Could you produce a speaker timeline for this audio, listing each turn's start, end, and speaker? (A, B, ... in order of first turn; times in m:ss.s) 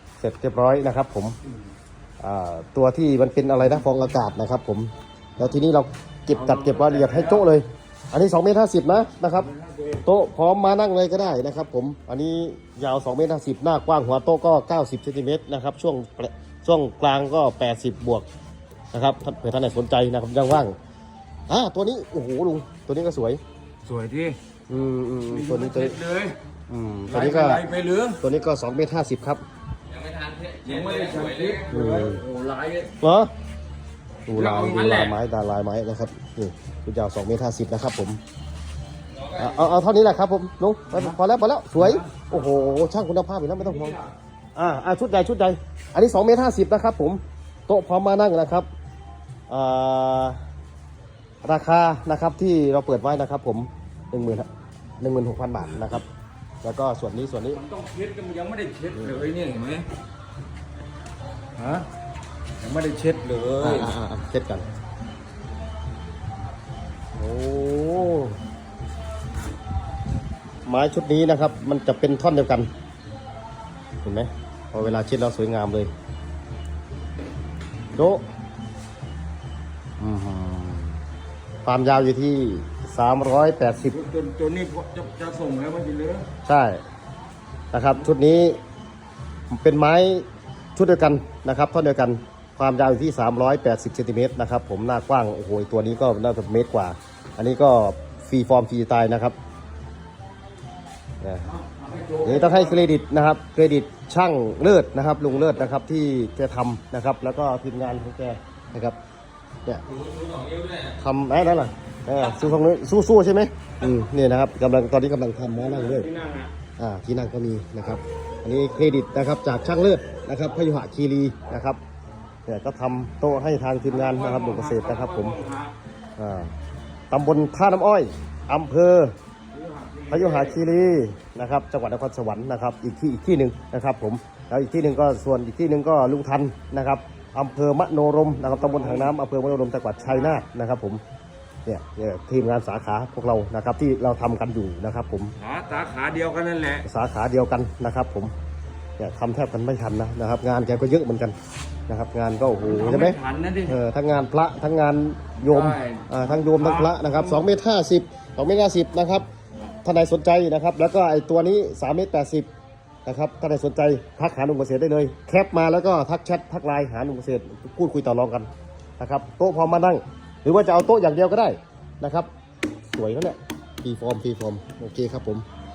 0:00.2-0:01.4 A
0:02.2-0:09.5 A
0:06.3-0:07.5 B
0:09.4-0:10.1 B
0:10.0-0:18.3 A
0:18.9-0:20.8 A
0:21.5-0:23.4 A
0:23.8-0:24.4 B
0:24.7-0:26.0 A
0:25.3-0:26.4 B
0:26.7-0:27.6 A
0:27.1-0:28.2 B
0:28.2-0:29.4 A
0:29.9-0:31.7 C
0:30.6-0:32.9 B
0:31.7-0:32.2 A
0:33.0-0:33.3 A
0:34.3-0:38.2 A
0:34.3-0:35.2 B
0:39.1-0:39.8 C
0:39.4-0:44.0 A
0:41.8-0:42.3 B
0:43.6-0:44.1 B
0:44.6-0:48.7 A
0:49.5-0:50.4 A
0:51.4-0:54.5 A
0:55.0-0:56.1 A
0:56.6-0:57.6 A
0:57.5-0:59.9 B
0:59.0-0:59.2 A
1:01.6-1:01.9 B
1:02.6-1:03.9 B
1:03.6-1:04.7 A
1:07.2-1:08.4 A
1:10.6-1:12.7 A
1:14.0-1:15.9 A
1:18.0-1:18.2 A
1:20.0-1:21.0 A
1:21.6-1:24.0 A
1:23.9-1:26.3 B
1:26.4-1:26.8 A
1:27.7-1:28.6 A
1:29.5-1:39.4 A
1:41.2-1:41.5 A
1:41.5-1:42.8 B
1:42.2-1:49.0 A
1:49.9-1:51.0 C
1:51.0-1:56.1 A
1:55.6-1:56.5 B
1:56.8-2:01.8 A
2:02.5-2:05.4 A
2:03.9-2:05.7 B
2:06.2-2:06.5 A
2:07.1-2:09.1 A
2:09.5-2:10.6 B
2:10.1-2:21.0 A
2:18.4-2:19.1 B
2:20.0-2:20.4 B
2:21.7-2:25.4 A
2:25.4-2:26.9 B
2:26.8-2:28.3 A
2:29.0-2:31.4 A
2:31.9-2:39.3 A
2:32.6-2:33.8 B
2:35.4-2:37.4 B
2:39.8-2:42.5 A
2:43.0-2:52.3 A
2:52.9-2:55.5 A